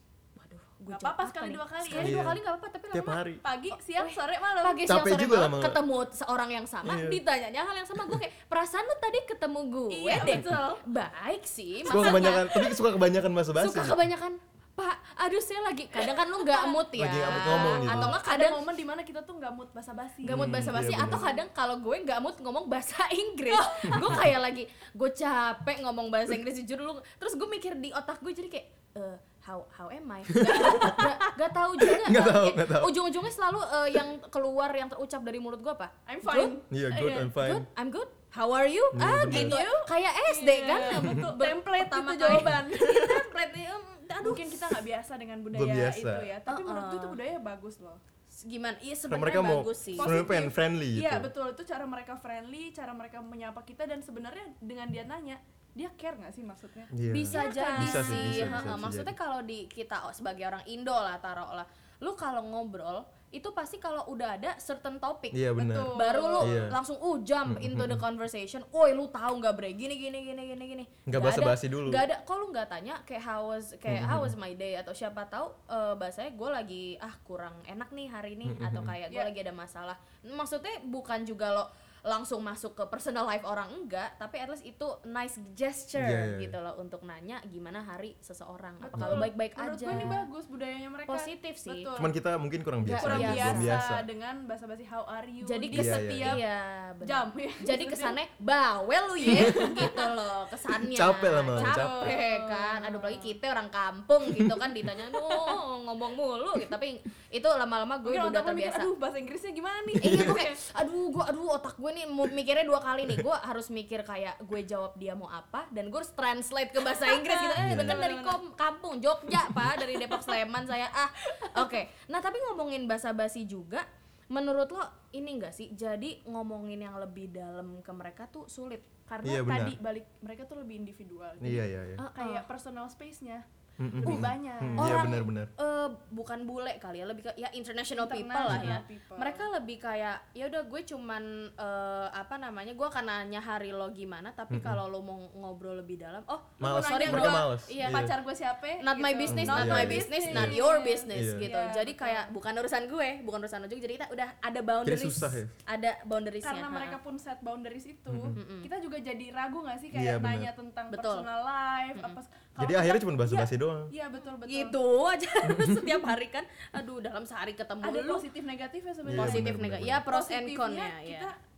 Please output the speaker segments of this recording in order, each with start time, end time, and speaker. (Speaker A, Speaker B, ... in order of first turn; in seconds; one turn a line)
Speaker A: 0.4-12.8
Speaker B: 0.9-2.2
Speaker C: 1.9-3.4
Speaker B: 3.4-4.9
Speaker C: 4.8-5.8
Speaker C: 6.8-7.2
Speaker B: 9.9-10.8
Speaker C: 11.8-14.0
Speaker A: 13.6-18.6
Speaker B: 16.0-20.5
Speaker C: 16.9-18.2
Speaker A: 20.2-36.6
Speaker C: 20.3-21.3
Speaker B: 23.5-24.2
Speaker C: 30.3-31.1
Speaker B: 30.6-30.9
Speaker C: 31.8-33.0
Speaker B: 36.1-37.3
Speaker C: 36.7-37.7
Speaker A: 37.4-44.5
Speaker C: 38.9-39.6
Speaker B: 39.3-43.3
Speaker B: 44.2-48.0
Speaker C: 45.5-46.3
Speaker A: 46.5-47.2
Speaker A: 48.3-50.2
Speaker C: 49.1-51.3
Speaker B: 50.0-58.7
Speaker C: 56.9-59.1
Speaker A: 57.0-90.1
Speaker C: 65.3-66.8
Speaker B: 65.6-66.7
Speaker C: 67.5-68.0
Speaker C: 71.1-72.0
Speaker C: 73.9-74.3
Speaker C: 78.5-79.0
Speaker C: 86.0-86.6
Speaker B: 88.8-92.2
Speaker C: 89.0-89.3
Speaker C: 89.9-90.2
Speaker A: 91.1-91.9
Speaker C: 92.0-94.1
Speaker A: 92.8-93.8
Speaker B: 93.0-96.4
Speaker A: 95.4-108.9
Speaker C: 95.7-96.4
Speaker B: 97.0-98.2
Speaker C: 99.2-99.7
Speaker B: 99.3-100.1
Speaker C: 100.8-102.2
Speaker B: 101.6-103.3
Speaker B: 108.0-110.4
Speaker C: 110.0-110.4
Speaker A: 110.0-128.9
Speaker B: 116.8-118.4
Speaker C: 117.6-118.0
Speaker B: 119.5-120.4
Speaker B: 121.4-121.8
Speaker B: 129.1-133.4
Speaker C: 129.2-129.8
Speaker C: 131.4-132.0
Speaker A: 132.0-132.5
Speaker C: 133.8-135.5
Speaker B: 134.0-135.2
Speaker A: 134.8-148.1
Speaker B: 138.0-139.5
Speaker C: 138.5-138.8
Speaker C: 144.5-144.8
Speaker C: 146.6-148.1
Speaker B: 146.6-152.3
Speaker A: 148.8-157.0
Speaker C: 149.3-150.6
Speaker C: 151.1-151.5
Speaker C: 154.8-155.5
Speaker B: 156.4-164.8
Speaker C: 158.1-158.4
Speaker A: 158.3-158.7
Speaker C: 159.9-160.5
Speaker A: 160.9-161.3
Speaker C: 162.6-163.9
Speaker A: 164.4-168.2
Speaker C: 165.4-165.9
Speaker B: 167.8-169.6
Speaker C: 169.1-170.0
Speaker A: 169.1-171.3
Speaker B: 170.1-171.4